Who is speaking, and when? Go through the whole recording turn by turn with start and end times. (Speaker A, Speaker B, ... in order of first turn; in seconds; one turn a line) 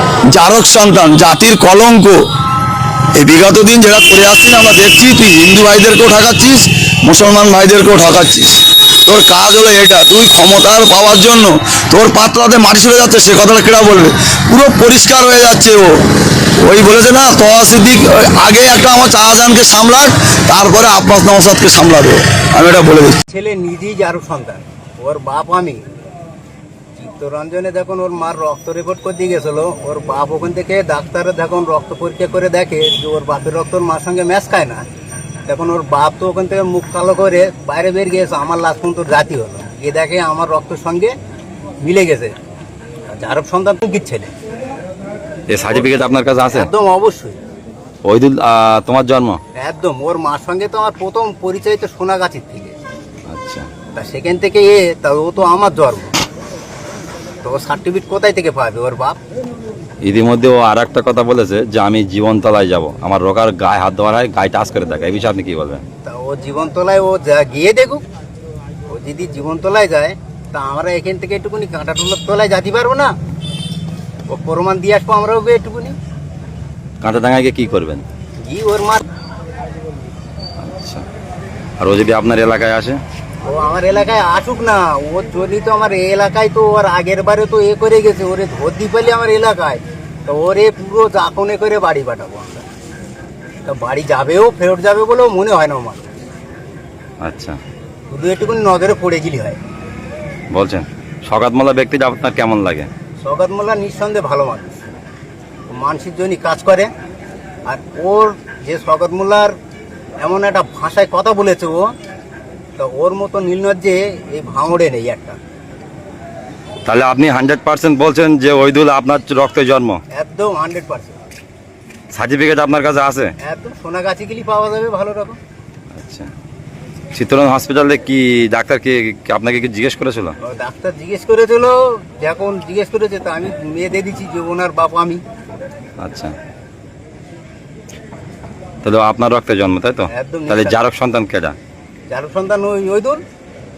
Speaker A: 0.3-2.2
Speaker A: 3.1-16.0
Speaker A: 16.6-23.2
Speaker B: 23.3-25.8
Speaker B: 27.0-34.9
Speaker B: 35.5-41.1
Speaker B: 41.8-42.4
Speaker B: 43.1-44.3
Speaker C: 45.5-46.7
Speaker B: 45.7-47.4
Speaker C: 48.0-49.4
Speaker B: 49.6-52.8
Speaker C: 53.3-53.7
Speaker B: 53.9-56.2
Speaker B: 57.4-59.2
Speaker C: 60.0-65.8
Speaker B: 66.0-68.0
Speaker B: 68.9-73.1
Speaker B: 74.3-76.0
Speaker C: 77.0-78.0
Speaker B: 78.4-79.1
Speaker C: 80.6-81.0
Speaker C: 81.8-83.0
Speaker B: 83.5-92.7
Speaker B: 93.7-96.0
Speaker C: 97.2-97.6
Speaker B: 98.1-99.6
Speaker C: 100.5-102.9
Speaker B: 103.2-104.8
Speaker B: 105.7-106.9
Speaker B: 107.7-109.5
Speaker B: 110.2-111.9
Speaker B: 112.8-115.4
Speaker C: 116.8-120.0
Speaker B: 120.1-121.2
Speaker C: 122.1-123.3
Speaker B: 123.4-125.4
Speaker C: 125.9-126.3
Speaker C: 127.1-130.3
Speaker B: 130.4-135.2
Speaker C: 136.0-136.3
Speaker C: 138.8-141.6
Speaker B: 140.1-140.8
Speaker B: 142.1-143.2